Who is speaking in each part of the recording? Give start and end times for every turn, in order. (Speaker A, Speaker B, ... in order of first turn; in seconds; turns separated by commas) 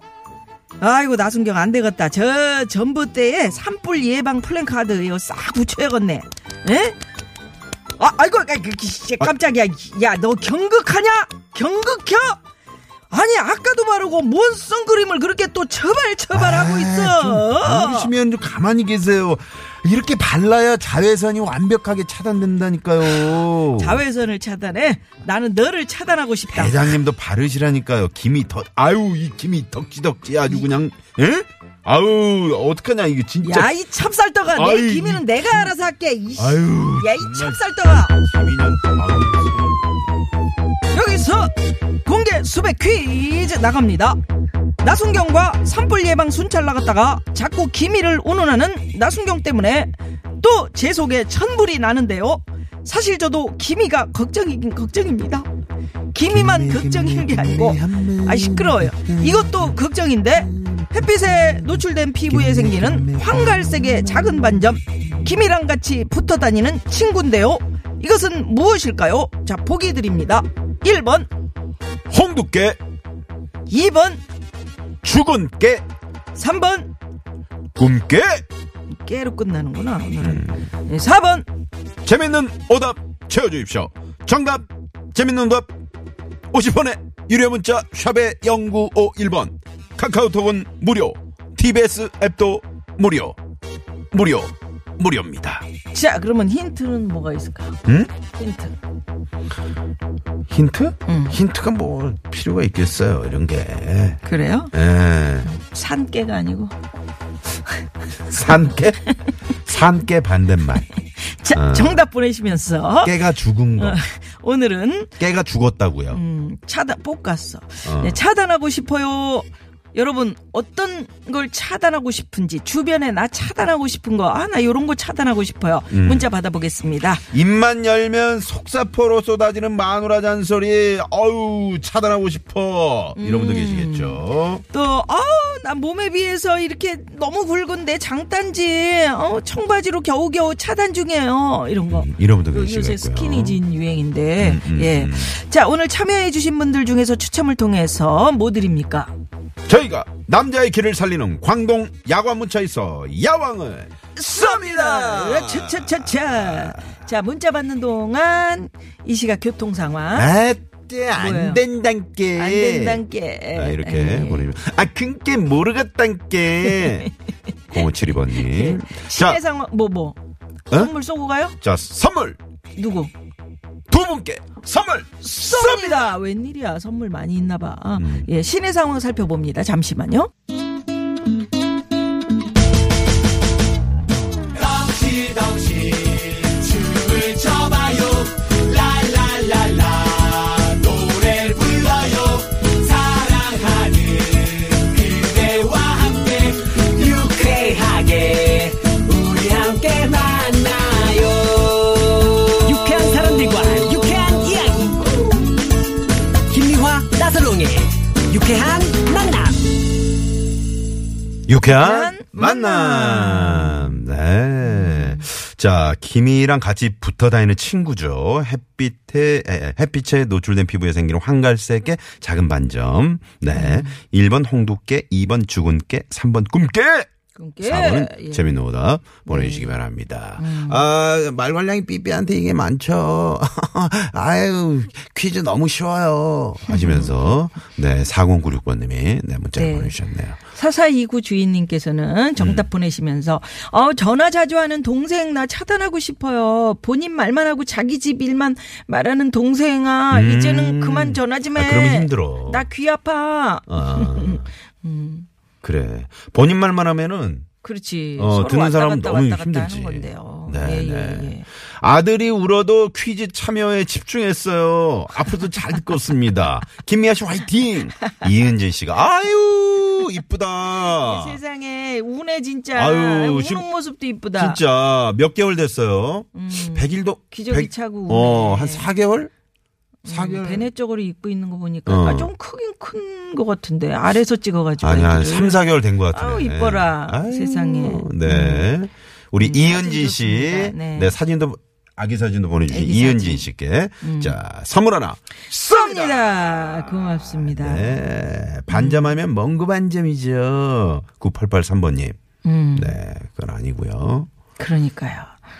Speaker A: 0.8-7.0, Speaker A: 8.0-12.4, Speaker A: 13.1-18.1, Speaker B: 16.3-24.0, Speaker A: 23.2-26.9, Speaker B: 26.5-33.7, Speaker A: 33.4-38.1, Speaker B: 34.5-35.7, Speaker B: 36.4-39.8, Speaker A: 40.9-41.5, Speaker A: 42.0-44.2, Speaker A: 44.8-55.5, Speaker A: 56.1-71.3, Speaker B: 56.2-59.8, Speaker B: 60.3-64.8, Speaker B: 72.1-72.8, Speaker A: 73.7-74.2, Speaker B: 75.0-75.8, Speaker A: 76.3-76.9, Speaker B: 77.7-78.4, Speaker A: 79.0-81.5, Speaker B: 80.2-80.6, Speaker B: 82.0-85.7, Speaker B: 86.5-93.3, Speaker B: 94.1-95.7, Speaker A: 95.9-98.7, Speaker B: 97.8-98.1, Speaker B: 100.5-104.2, Speaker A: 101.0-101.4, Speaker A: 104.2-104.7, Speaker B: 104.7-105.5, Speaker A: 105.5-106.7, Speaker B: 108.2-109.1, Speaker B: 109.6-110.8, Speaker A: 111.2-113.2, Speaker B: 111.5-112.0, Speaker B: 113.0-114.0, Speaker A: 113.8-115.1, Speaker B: 115.2-116.2, Speaker A: 116.1-127.2, Speaker B: 117.8-118.2, Speaker B: 125.9-126.3, Speaker B: 127.3-134.6, Speaker A: 133.2-149.1, Speaker B: 141.9-143.6, Speaker B: 144.4-145.4, Speaker B: 149.7-156.8, Speaker A: 154.2-160.3, Speaker B: 160.1-167.1, Speaker A: 161.2-161.6, Speaker A: 162.3-164.5, Speaker A: 166.7-167.1, Speaker B: 167.7-169.4, Speaker A: 168.3-170.2, Speaker A: 170.7-171.5, Speaker B: 171.6-172.4, Speaker A: 172.8-173.1, Speaker B: 173.9-176.1, Speaker A: 175.2-180.3, Speaker B: 178.0-178.3, Speaker C: 187.2-188.1, Speaker C: 188.8-192.3, Speaker C: 192.8-205.5, Speaker C: 206.5-209.6, Speaker B: 211.5-227.1, Speaker A: 211.6-214.1, Speaker A: 214.6-215.3, Speaker A: 223.5-223.9, Speaker A: 227.3-228.5, Speaker B: 227.6-240.4, Speaker A: 229.3-229.7, Speaker A: 230.4-230.8, Speaker A: 236.7-237.2, Speaker A: 239.6-255.3, Speaker B: 242.4-242.7, Speaker B: 250.1-252.7, Speaker B: 253.7-254.5, Speaker B: 255.6-257.5, Speaker A: 257.6-261.4, Speaker B: 258.2-271.4, Speaker A: 270.8-274.6, Speaker B: 272.7-273.6, Speaker B: 274.3-279.3, Speaker A: 276.3-278.9, Speaker B: 280.0-280.7, Speaker A: 280.0-288.7, Speaker B: 281.9-282.3, Speaker B: 284.8-302.2, Speaker A: 289.4-291.1, Speaker A: 292.7-293.5, Speaker A: 294.0-294.4, Speaker A: 295.5-298.0, Speaker A: 298.7-299.1, Speaker A: 302.4-302.9, Speaker B: 302.7-304.3, Speaker A: 304.6-305.3